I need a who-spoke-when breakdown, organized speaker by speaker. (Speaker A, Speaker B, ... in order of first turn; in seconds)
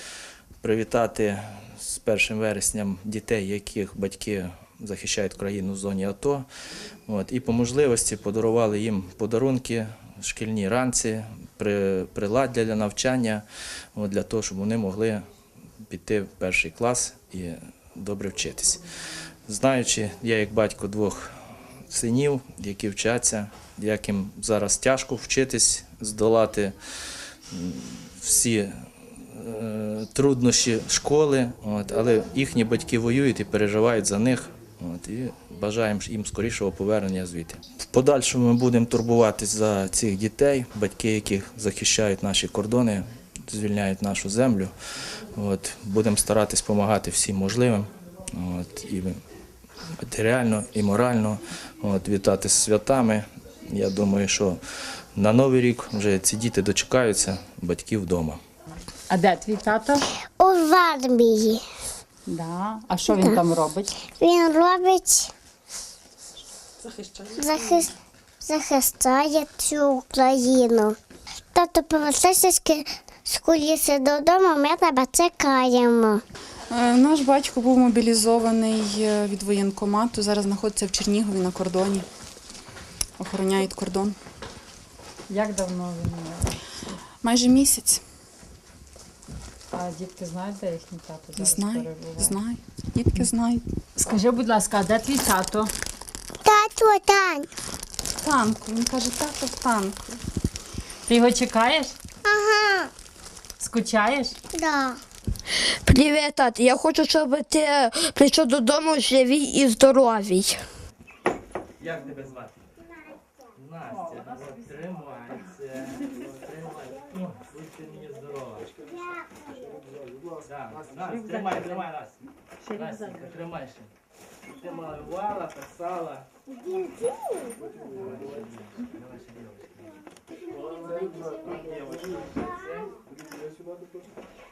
Speaker A: 0.6-6.5, 7.1-13.4, 13.9-15.2, 15.9-18.8, 19.5-21.3, 21.9-26.8, 27.5-44.7, 45.3-49.2, 50.0-54.6, 55.1-58.4, 111.8-112.6, 113.6-118.7, 120.5-123.9, 124.5-126.3, 128.0-130.0, 131.6-132.9
Speaker B: 59.1-60.1, 62.3-63.9, 85.3-87.0, 89.7-92.4, 94.0-95.7, 101.1-102.0, 103.6-104.3
Speaker C: 60.4-61.6, 63.1-63.4, 64.1-65.3, 67.3-71.0, 71.5-76.2, 96.4-97.5, 102.2-102.9, 104.5-105.0, 118.8-119.9, 126.5-127.7, 130.5-132.6
Speaker D: 76.7-82.1, 83.2-84.2, 87.2-88.0, 91.4-93.6, 98.2-100.2
Speaker E: 105.8-110.6